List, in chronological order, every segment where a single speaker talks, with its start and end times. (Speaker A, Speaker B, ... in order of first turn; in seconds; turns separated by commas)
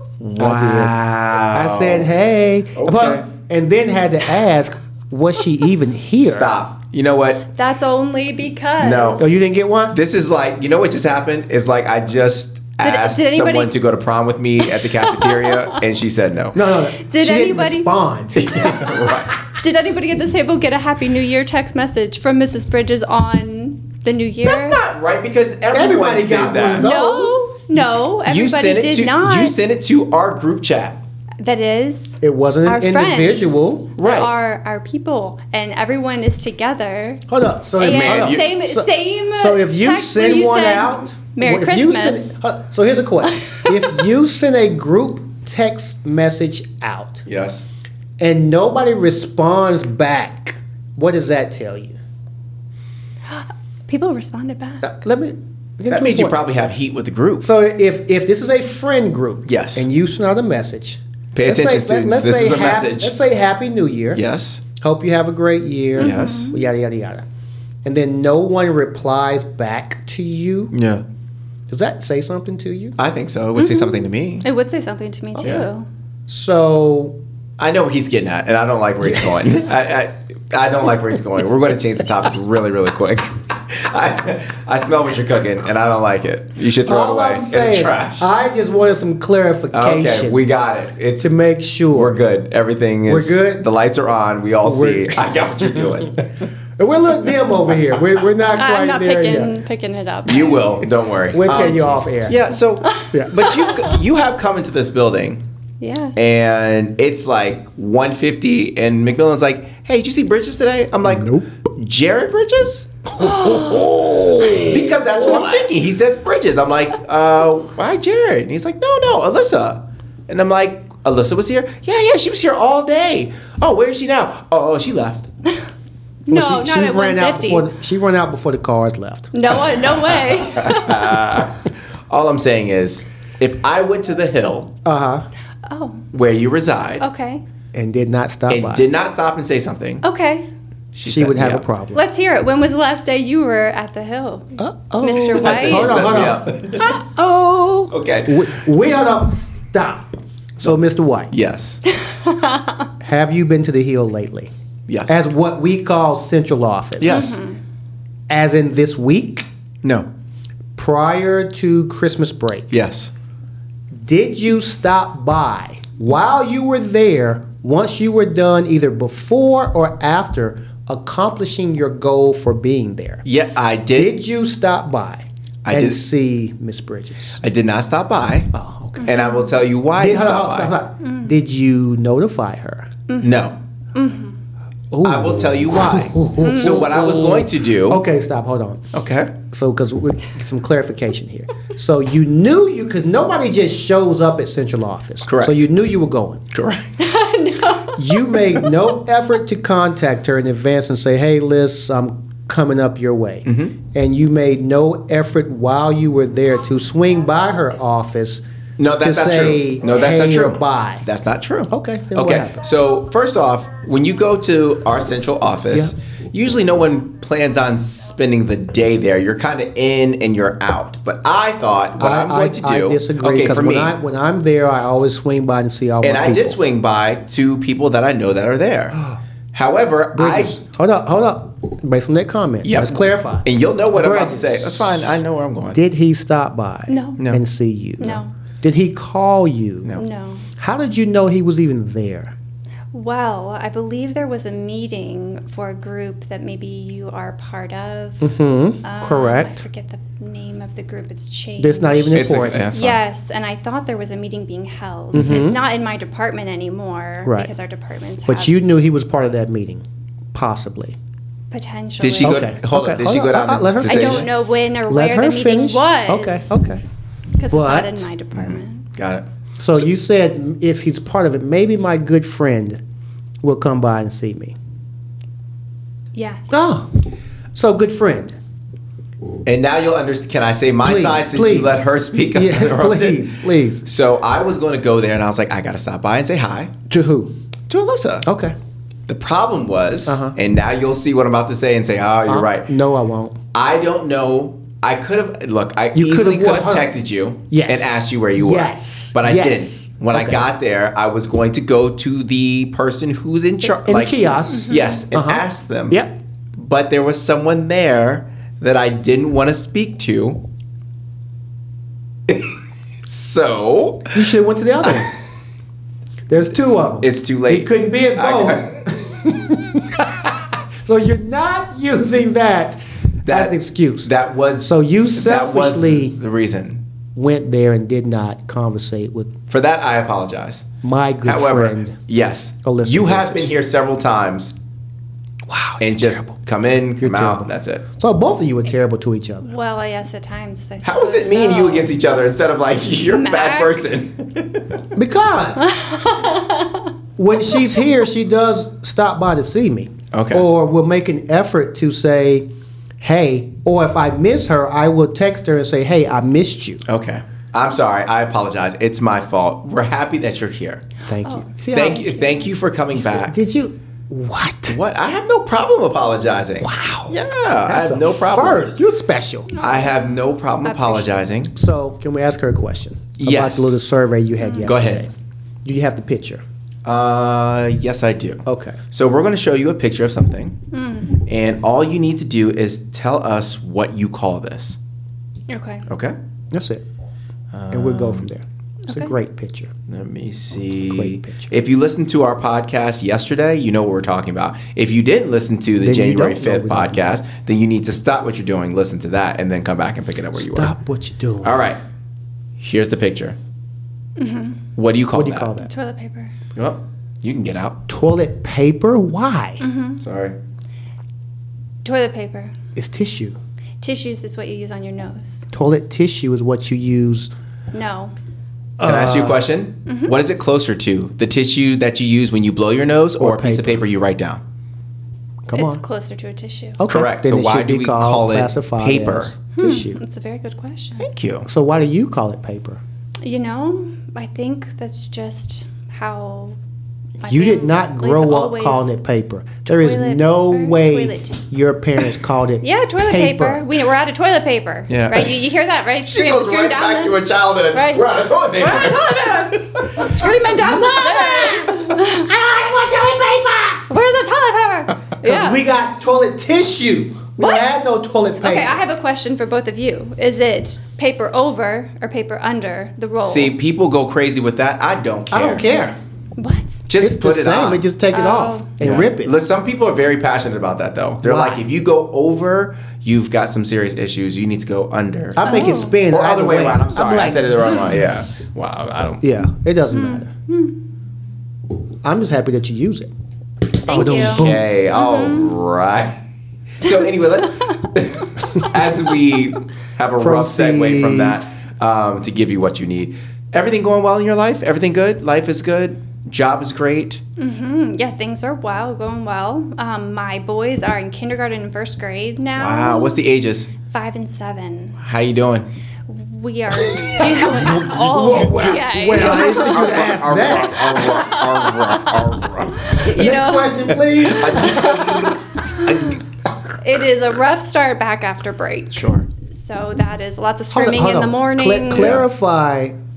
Speaker A: 0.2-2.1, Speaker B: 0.4-6.5, Speaker A: 2.8-3.3, Speaker A: 6.2-7.4, Speaker C: 7.5-9.3, Speaker A: 8.8-9.3, Speaker B: 9.2-10.0, Speaker A: 9.9-16.6, Speaker C: 12.8-13.7, Speaker C: 14.6-15.8, Speaker B: 16.5-19.1, Speaker C: 17.0-17.9, Speaker A: 18.3-19.4, Speaker C: 19.5-24.8, Speaker A: 24.4-26.9, Speaker B: 25.7-27.4, Speaker C: 26.8-29.6, Speaker A: 28.2-31.0, Speaker C: 31.4-37.2, Speaker B: 32.2-33.9, Speaker A: 34.0-34.3, Speaker B: 37.3-47.2, Speaker C: 37.8-42.4, Speaker A: 37.8-38.5, Speaker C: 43.3-44.0, Speaker A: 47.3-47.6, Speaker B: 48.2-52.0, Speaker C: 53.3-54.9, Speaker B: 54.8-56.4, Speaker A: 55.9-57.5, Speaker B: 57.4-64.2, Speaker A: 59.5-59.9, Speaker A: 61.3-63.2, Speaker A: 64.1-64.6, Speaker B: 64.8-67.2, Speaker A: 66.0-66.5, Speaker C: 66.0-66.5, Speaker B: 67.8-70.7, Speaker A: 70.7-71.0, Speaker B: 71.7-73.0, Speaker A: 73.0-74.4, Speaker C: 73.5-75.9, Speaker A: 75.4-75.7, Speaker B: 76.3-77.2, Speaker A: 77.6-88.3, Speaker B: 86.8-90.4, Speaker A: 89.7-91.3, Speaker B: 91.2-92.2, Speaker A: 91.9-96.3, Speaker B: 93.1-93.7, Speaker B: 94.6-96.1, Speaker B: 96.8-99.5, Speaker C: 98.5-100.6, Speaker A: 100.3-105.4, Speaker B: 101.3-102.4, Speaker C: 101.7-102.0, Speaker C: 102.8-104.0, Speaker C: 105.8-106.2, Speaker A: 106.2-112.9, Speaker B: 111.0-111.5, Speaker B: 113.2-115.5, Speaker C: 113.2-114.7, Speaker A: 114.5-125.3, Speaker C: 126.3-127.7, Speaker B: 126.3-129.3, Speaker C: 129.3-131.2, Speaker A: 130.4-134.7, Speaker B: 134.8-135.2, Speaker C: 135.7-136.0, Speaker A: 136.1-137.0, Speaker C: 137.0-137.4, Speaker B: 137.7-138.8, Speaker A: 138.5-140.0, Speaker C: 140.0-140.5, Speaker A: 140.9-141.6, Speaker B: 141.0-142.0, Speaker C: 141.9-146.2, Speaker B: 144.6-151.3, Speaker A: 145.3-147.0, Speaker A: 147.9-148.5, Speaker A: 151.3-151.8, Speaker C: 151.9-152.9, Speaker B: 153.0-154.5, Speaker B: 155.1-157.3, Speaker A: 157.0-157.4, Speaker C: 157.0-157.6, Speaker B: 158.3-159.5, Speaker B: 160.8-162.7, Speaker A: 162.7-163.1, Speaker B: 163.9-173.2, Speaker A: 173.2-174.1, Speaker B: 173.9-177.4, Speaker A: 175.6-176.0, Speaker A: 177.4-180.7, Speaker B: 178.5-179.1, Speaker C: 179.0-179.5, Speaker B: 179.9-182.9, Speaker C: 181.0-181.3, Speaker C: 183.1-183.3, Speaker A: 183.2-183.6, Speaker C: 183.9-184.3, Speaker B: 184.9-188.8, Speaker A: 185.0-188.0, Speaker C: 186.4-186.8, Speaker A: 188.9-189.3, Speaker B: 189.5-196.4, Speaker A: 195.2-195.7, Speaker A: 196.5-196.9, Speaker C: 197.0-198.4, Speaker B: 197.9-208.4, Speaker A: 203.5-203.7, Speaker A: 208.8-223.9, Speaker B: 209.0-211.1, Speaker B: 211.7-212.6, Speaker B: 222.0-226.6, Speaker A: 226.0-230.6, Speaker B: 230.1-235.2, Speaker A: 232.6-235.8, Speaker B: 235.7-239.9, Speaker C: 236.9-237.2, Speaker C: 238.0-238.3, Speaker C: 239.9-240.4, Speaker B: 240.6-242.3, Speaker C: 242.9-248.3, Speaker B: 248.2-249.6, Speaker C: 248.8-258.6, Speaker B: 251.6-252.7, Speaker A: 252.1-253.0, Speaker B: 255.1-255.6, Speaker A: 255.1-255.4, Speaker B: 257.2-257.5, Speaker B: 258.2-260.9, Speaker C: 261.5-262.5, Speaker A: 262.0-264.3, Speaker B: 262.2-264.3, Speaker C: 263.9-266.6, Speaker B: 264.9-266.8, Speaker C: 267.4-268.8, Speaker B: 267.5-268.1, Speaker A: 268.3-269.2, Speaker B: 269.6-272.8, Speaker B: 273.4-274.6, Speaker C: 276.1-276.6, Speaker B: 276.5-276.9, Speaker B: 277.5-278.4, Speaker A: 279.4-283.3, Speaker B: 280.8-281.8, Speaker B: 282.3-283.8, Speaker A: 283.8-286.7, Speaker B: 286.9-287.3, Speaker A: 287.7-288.2, Speaker B: 288.2-288.5, Speaker A: 289.1-292.7, Speaker B: 290.1-290.3, Speaker B: 292.3-293.4, Speaker A: 293.5-306.0, Speaker B: 295.9-296.9, Speaker B: 297.5-300.5, Speaker B: 303.7-306.1, Speaker C: 304.5-305.0, Speaker A: 306.6-310.4, Speaker A: 312.3-312.5, Speaker A: 313.1-314.3, Speaker B: 314.1-315.1, Speaker B: 316.3-326.1, Speaker A: 317.0-318.8, Speaker A: 323.2-326.8, Speaker B: 327.1-329.3, Speaker A: 329.5-330.7, Speaker B: 330.8-331.9, Speaker A: 331.2-334.5, Speaker B: 332.6-333.5, Speaker B: 335.5-336.3, Speaker A: 335.8-337.8, Speaker B: 337.0-339.5, Speaker C: 339.4-341.9, Speaker A: 340.8-344.8, Speaker C: 343.1-343.9, Speaker B: 344.9-345.8, Speaker C: 345.6-346.9, Speaker B: 347.2-352.5, Speaker A: 350.1-350.4, Speaker B: 353.0-356.8, Speaker A: 356.9-360.9, Speaker B: 361.1-362.1, Speaker C: 361.2-362.5, Speaker A: 361.7-363.4, Speaker B: 362.9-364.8, Speaker A: 364.7-368.8, Speaker B: 366.6-369.5, Speaker C: 369.5-370.0, Speaker A: 369.6-371.5, Speaker C: 370.6-371.2, Speaker B: 371.5-375.1, Speaker A: 373.2-373.8, Speaker C: 374.4-374.7, Speaker A: 374.6-375.1, Speaker B: 375.6-376.4, Speaker A: 376.8-380.6, Speaker B: 378.4-378.8, Speaker C: 380.7-381.2, Speaker A: 381.2-384.8, Speaker C: 385.5-385.8, Speaker A: 385.9-386.1, Speaker B: 386.5-386.8, Speaker A: 387.5-388.3, Speaker B: 387.7-389.7, Speaker C: 388.9-389.1, Speaker A: 389.9-400.7, Speaker B: 390.9-391.5, Speaker B: 395.8-397.1, Speaker B: 400.3-401.7, Speaker A: 401.4-401.8, Speaker A: 402.6-403.4, Speaker C: 404.2-404.6, Speaker A: 404.8-405.5, Speaker B: 405.1-405.7, Speaker C: 405.6-406.3, Speaker A: 406.5-407.8, Speaker B: 407.9-409.6, Speaker C: 409.6-410.0, Speaker A: 410.0-410.4, Speaker C: 411.8-412.5, Speaker B: 412.8-413.4, Speaker C: 413.8-415.5, Speaker B: 415.5-417.3, Speaker C: 417.7-418.1, Speaker B: 418.8-419.4, Speaker A: 418.8-424.4, Speaker C: 419.9-420.1, Speaker B: 423.2-423.8, Speaker B: 425.4-425.8, Speaker C: 425.5-426.8, Speaker B: 426.8-430.0, Speaker A: 426.9-429.3, Speaker C: 429.6-431.1, Speaker A: 431.0-431.5, Speaker B: 431.4-432.8, Speaker C: 433.2-436.6, Speaker C: 437.2-438.9, Speaker B: 437.2-443.6, Speaker C: 439.6-441.4, Speaker C: 442.6-447.2, Speaker A: 444.9-445.5, Speaker A: 446.0-450.1, Speaker C: 447.7-452.3, Speaker B: 450.6-453.9, Speaker C: 453.9-455.6, Speaker B: 455.2-458.8, Speaker C: 457.4-457.6, Speaker C: 458.4-463.5, Speaker A: 463.2-465.6, Speaker B: 465.3-465.9, Speaker C: 466.4-466.8, Speaker A: 466.9-467.8, Speaker B: 467.0-469.3, Speaker C: 468.1-468.7, Speaker A: 468.8-479.2, Speaker B: 471.2-471.6, Speaker B: 475.4-478.3, Speaker C: 475.4-475.9, Speaker B: 479.2-480.3, Speaker C: 479.9-480.8, Speaker B: 482.0-483.1, Speaker B: 483.9-484.7, Speaker C: 483.9-485.5, Speaker A: 484.0-486.1, Speaker A: 486.8-497.2, Speaker B: 490.2-491.4, Speaker C: 497.4-503.2, Speaker A: 502.6-503.7, Speaker C: 503.9-505.0, Speaker A: 505.0-505.7, Speaker C: 506.1-510.1, Speaker A: 506.9-513.3, Speaker B: 507.2-511.2, Speaker C: 511.0-512.1, Speaker C: 512.8-513.9, Speaker B: 513.0-515.1, Speaker A: 513.9-516.2, Speaker C: 514.6-516.1, Speaker C: 516.8-522.2, Speaker A: 518.9-519.3, Speaker B: 520.7-522.9, Speaker A: 521.9-522.2